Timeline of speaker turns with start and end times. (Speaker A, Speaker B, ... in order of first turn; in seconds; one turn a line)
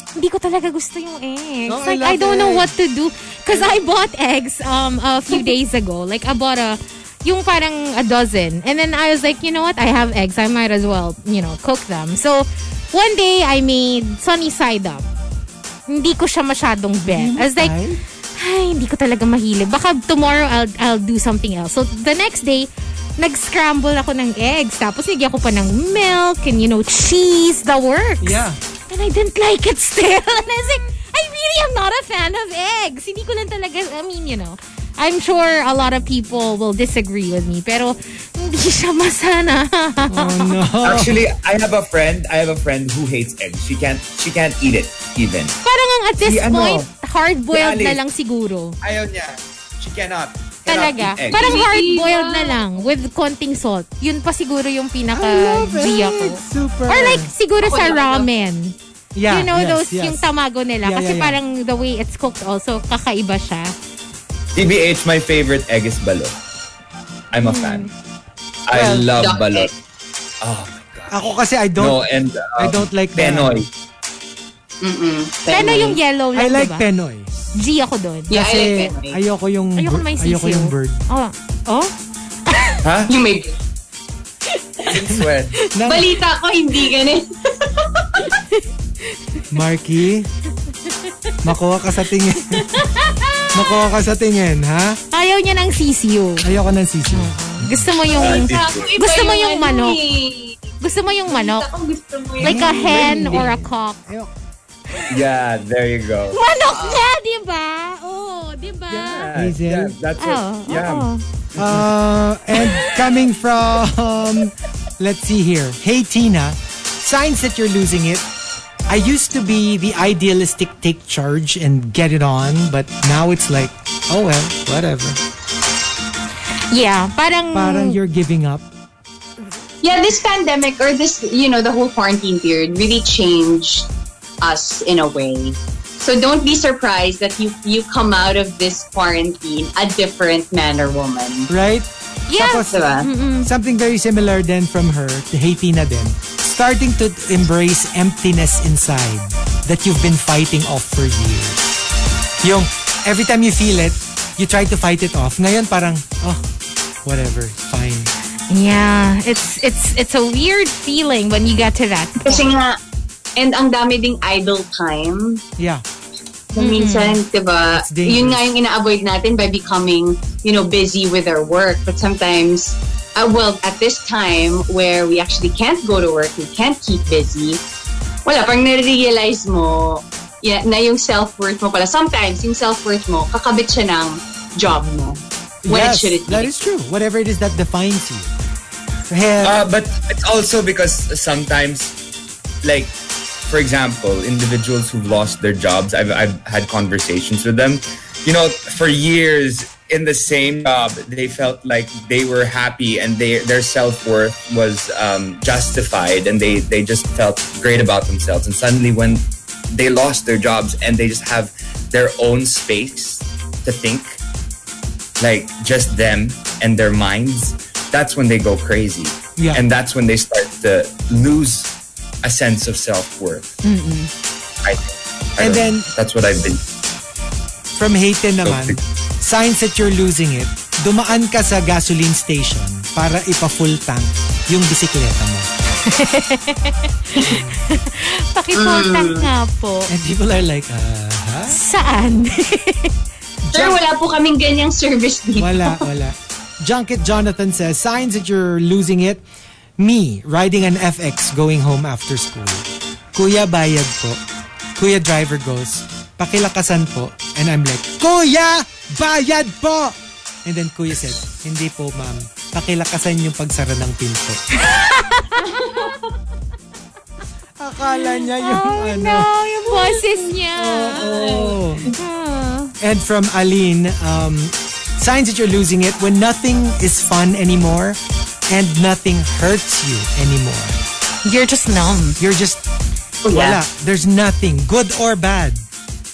Speaker A: 0.2-15.0
Speaker B: 1.7-2.7
Speaker A: 15.9-17.7
Speaker B: 17.0-18.0
Speaker A: 18.4-40.6
Speaker B: 28.2-28.6
Speaker B: 40.1-41.2
Speaker C: 40.8-45.5
Speaker A: 45.6-48.8
Speaker C: 46.2-46.9
Speaker C: 47.5-48.0
Speaker C: 48.8-51.6
Speaker A: 50.7-58.8
Speaker D: 51.3-52.9
Speaker B: 55.1-57.3
Speaker D: 57.6-58.5
Speaker B: 59.1-60.3
Speaker A: 59.3-63.7
Speaker B: 60.8-61.4
Speaker C: 64.5-66.3
Speaker C: 67.3-67.9
Speaker A: 67.4-67.9
Speaker C: 68.7-69.7
Speaker B: 68.7-69.1
Speaker D: 69.2-69.7
Speaker C: 70.4-73.7
Speaker B: 71.1-72.0
Speaker B: 72.5-73.7
Speaker D: 74.8-76.0
Speaker A: 75.5-76.8
Speaker B: 76.3-77.3
Speaker A: 77.5-78.3
Speaker D: 78.3-79.2
Speaker B: 78.3-81.0
Speaker A: 79.8-81.9
Speaker A: 82.5-82.8
Speaker C: 82.8-83.1
Speaker D: 83.1-83.5
Speaker C: 84.8-85.6
Speaker B: 84.9-86.1
Speaker D: 85.8-88.3
Speaker A: 88.3-89.4
Speaker B: 89.5-90.3
Speaker B: 91.4-92.8
Speaker A: 92.5-93.8
Speaker B: 93.5-95.0
Speaker A: 95.1-96.5
Speaker B: 96.4-98.0
Speaker A: 97.1-100.0
Speaker D: 98.1-100.7
Speaker C: 98.1-98.9
Speaker A: 100.8-101.7
Speaker D: 101.2-103.5
Speaker A: 102.4-104.0
Speaker B: 102.4-104.3
Speaker C: 105.1-106.4
Speaker A: 106.3-109.3
Speaker D: 106.7-107.0
Speaker C: 108.9-111.9
Speaker B: 109.3-109.9
Speaker A: 110.2-111.2
Speaker B: 111.6-118.3
Speaker A: 112.5-113.0
Speaker B: 118.9-125.2
Speaker A: 126.7-128.0
Speaker B: 127.5-128.7
Speaker D: 129.8-133.9
Speaker D: 134.4-141.5
Speaker B: 141.5-151.8
Speaker A: 142.3-143.5
Speaker D: 142.7-143.1
Speaker B: 152.4-156.4
Speaker B: 157.0-158.1
Speaker A: 158.5-162.5
Speaker D: 162.2-162.8
Speaker D: 163.3-165.4
Speaker B: 165.6-165.8
Speaker D: 166.5-177.6
Speaker A: 166.6-167.2
Speaker B: 167.7-168.5
Speaker D: 178.2-186.5
Speaker B: 185.6-188.3
Speaker B: 189.1-189.6
Speaker C: 189.4-191.9
Speaker C: 192.6-192.9
Speaker C: 193.4-214.2
Speaker C: 215.2-221.7
Speaker B: 219.4-219.6
Speaker C: 222.2-223.6
Speaker A: 223.6-224.1
Speaker C: 224.6-226.6
Speaker B: 225.4-225.9
Speaker B: 227.7-235.5
Speaker C: 228.4-228.8
Speaker A: 235.8-239.9
Speaker B: 237.2-237.6
Speaker D: 238.5-239.3
Speaker B: 239.9-241.6
Speaker A: 241.5-242.9
Speaker B: 243.4-243.8
Speaker D: 243.5-245.8
Speaker B: 245.4-249.2
Speaker B: 249.8-254.2
Speaker B: 254.8-264.4
Speaker A: 264.6-265.8
Speaker D: 265.4-266.1
Speaker B: 267.6-269.3
Speaker A: 267.9-272.7
Speaker B: 270.5-271.9
Speaker D: 270.9-271.5
Speaker B: 272.8-280.8
Speaker A: 281.2-282.2
Speaker B: 282.2-282.6
Speaker D: 283.2-283.6
Speaker B: 283.3-285.6